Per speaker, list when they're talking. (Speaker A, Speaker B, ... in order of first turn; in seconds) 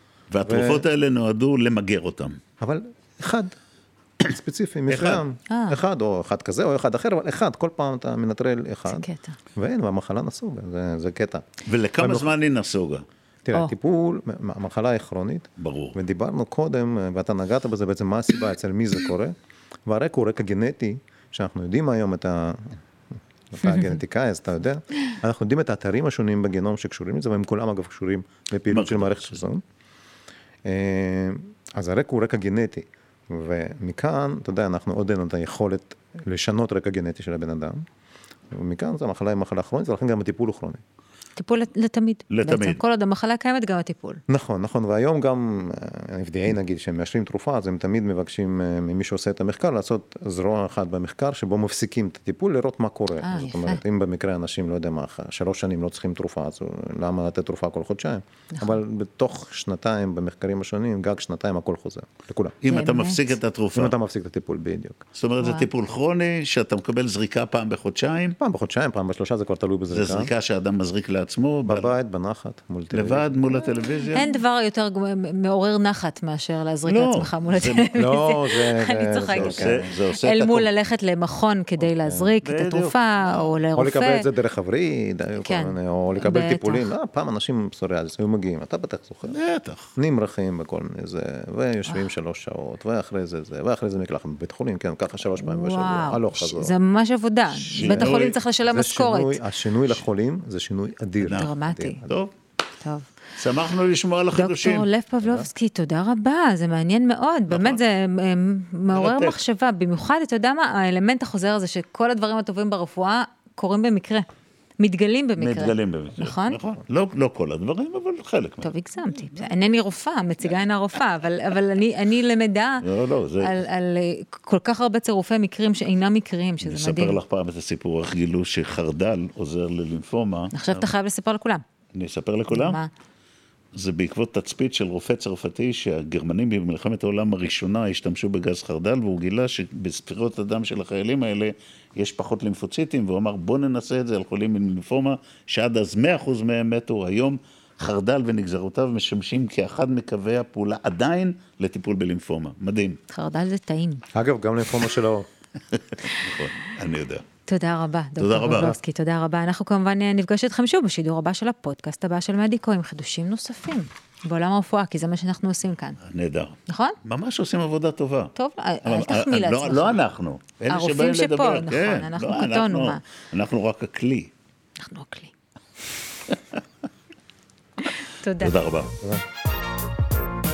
Speaker A: 0.3-2.4, 4.9-5.2, 11.7-13.0, 15.6-16.0, 28.7-29.4, 42.3-42.8, 62.6-63.9, 65.1-68.4, 69.9-71.9, 72.9-74.3, 76.8-77.9, 79.3-80.7, 82.4-83.3, 89.3-89.9, 97.5-98.4, 101.2-101.5, 102.1-102.3, 103.4-104.9, 107.5-107.8, 108.9-109.4, 115.4-118.7, 122.8-123.5, 126.6-130.9, 131.9-132.8, 133.7-153.0, 155.7-157.2, 158.2-158.7, 166.1-168.3, 168.8-174.3, 178.4-178.9
Speaker B: 0.4-0.8, 2.6-3.5, 4.2-11.4, 12.0-12.3, 13.4-19.3, 19.9-22.8, 23.5-29.6, 30.6-37.8, 38.5-40.8, 44.3-62.6, 63.7-65.0, 68.4-70.3, 71.7-73.6, 77.9-79.8, 81.8-82.3, 83.7-89.4, 90.0-96.8, 97.8-102.2, 105.2-105.5, 154.1-155.2, 158.5-158.8
Speaker C: 5.5-5.8, 8.9-9.3, 41.4-44.2, 53.2-53.8, 62.7-63.3, 65.4-65.7, 74.1-84.3, 85.4-86.9, 95.3-99.4, 101.3-102.0, 102.8-103.1, 104.3-114.2, 114.8-116.6, 118.6-122.8, 123.4-127.2, 130.5-131.6, 132.5-132.9, 153.1-154.0, 157.5-166.0, 166.7-167.0, 168.3-170.0, 170.7-173.0, 174.8-175.3, 178.1-178.6